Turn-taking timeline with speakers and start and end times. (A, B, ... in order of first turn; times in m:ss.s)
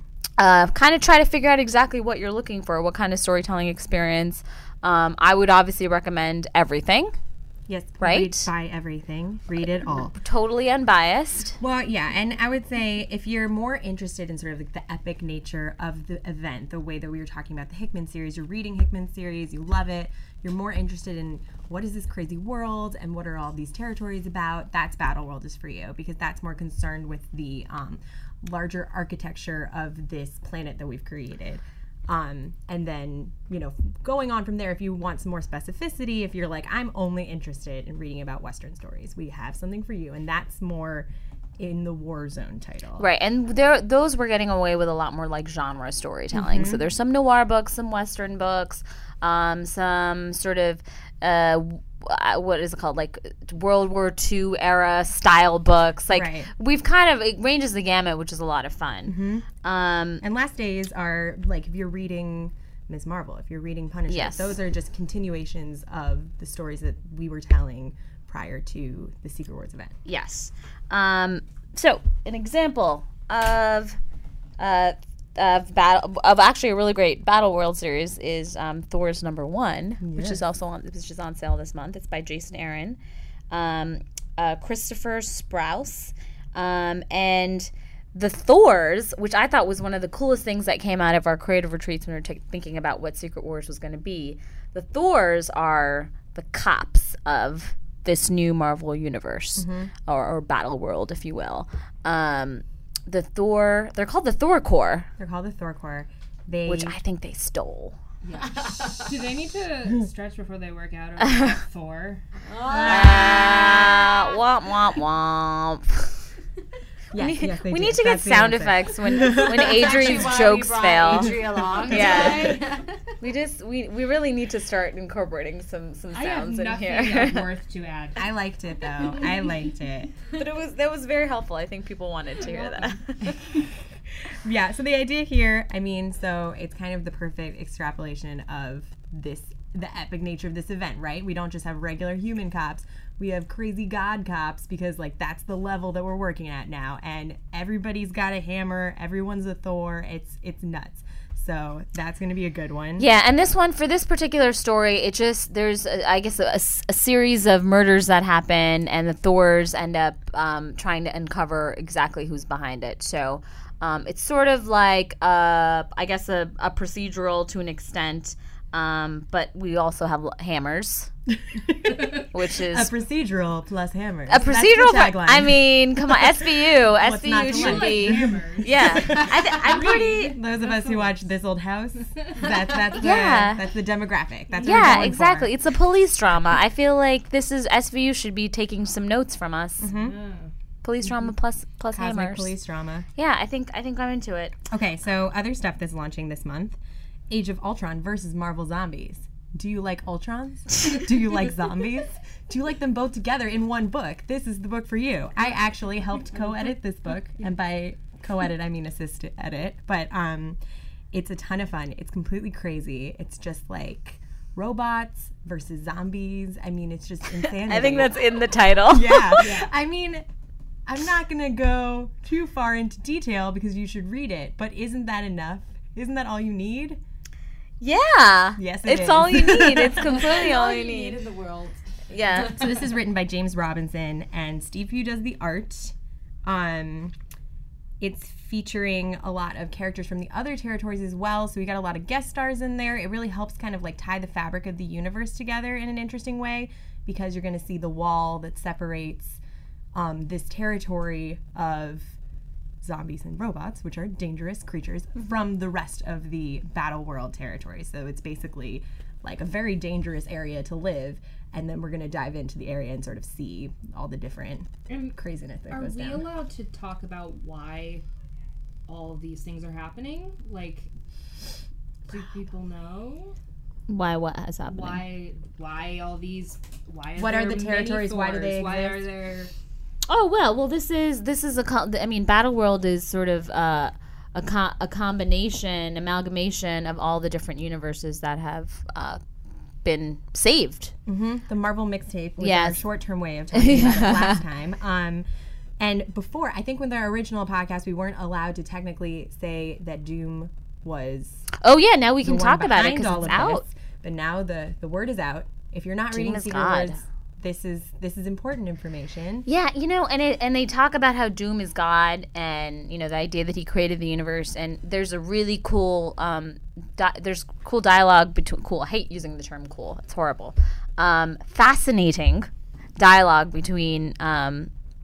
0:00.4-0:07.2 A
0:07.7-0:10.2 B
0:08.0-0:08.5 A
0:10.2-0:11.6 A
0:11.6-0:43.0 B
0:43.0-1:00.2 A
0:46.3-0:46.8 B
0:56.1-0:56.5 B
0:59.1-0:59.5 B
1:00.2-1:10.0 B
1:04.1-1:04.5 A
1:10.1-1:14.0 A
1:14.6-1:23.0 A
1:20.0-1:20.4 B
1:23.5-1:45.1 A
1:39.6-1:39.9 B
1:45.2-1:47.0 B
1:46.6-1:48.0 A
1:48.2-1:52.2 C
1:48.4-1:49.2 D
1:52.4-1:54.4 D
1:52.7-1:53.2 B
1:52.9-1:56.2 A
1:57.1-2:00.3 B
1:57.1-2:02.6 A
1:59.6-2:03.0 D
2:01.1-2:02.6 B
2:03.2-2:07.5 A
2:06.1-2:08.4 C
2:08.1-2:10.1 B
2:09.1-2:09.5 C
2:10.3-2:13.4 A
2:12.4-2:13.0 C
2:14.2-2:33.1 B
2:33.0-2:51.1 A
2:51.3-3:05.5 B
2:52.1-2:52.9 A
2:54.3-3:00.4 A
2:57.5-3:01.2 C
3:02.2-3:02.5 C
3:02.9-3:03.6 A
3:04.6-3:09.9 A
3:04.6-3:05.1 C
3:09.8-3:10.2 B
3:09.9-3:10.5 C
3:10.8-3:12.6 A
3:11.9-3:13.1 B
3:13.2-3:14.5 A
3:14.7-3:16.8 B
3:17.3-3:30.6 B
3:31.1-3:38.2 B
3:37.4-3:39.5 A
3:38.9-3:40.2 B
3:39.4-3:39.7 C
3:40.9-3:47.0 B
3:47.8-3:51.2 A
3:48.6-3:50.3 B
3:50.0-3:51.8 D
3:52.1-3:52.7 A
3:52.4-3:57.2 B
3:58.0-4:09.4 B
4:09.9-4:12.2 B
4:12.8-4:26.2 B
4:24.9-4:25.1 C
4:25.7-4:28.0 C
4:28.9-4:30.9 C
4:32.1-4:33.4 C
4:33.9-4:35.0 A
4:34.6-4:39.5 C
4:37.2-4:39.1 B
4:40.1-4:49.2 A
4:49.8-4:51.0 A
4:51.1-4:55.2 B
4:52.4-4:52.8 A
4:53.5-4:54.4 A
4:55.8-5:01.5 B
5:01.6-5:03.6 A
5:02.2-5:09.5 B
5:06.1-5:07.0 A
5:09.5-5:24.7 A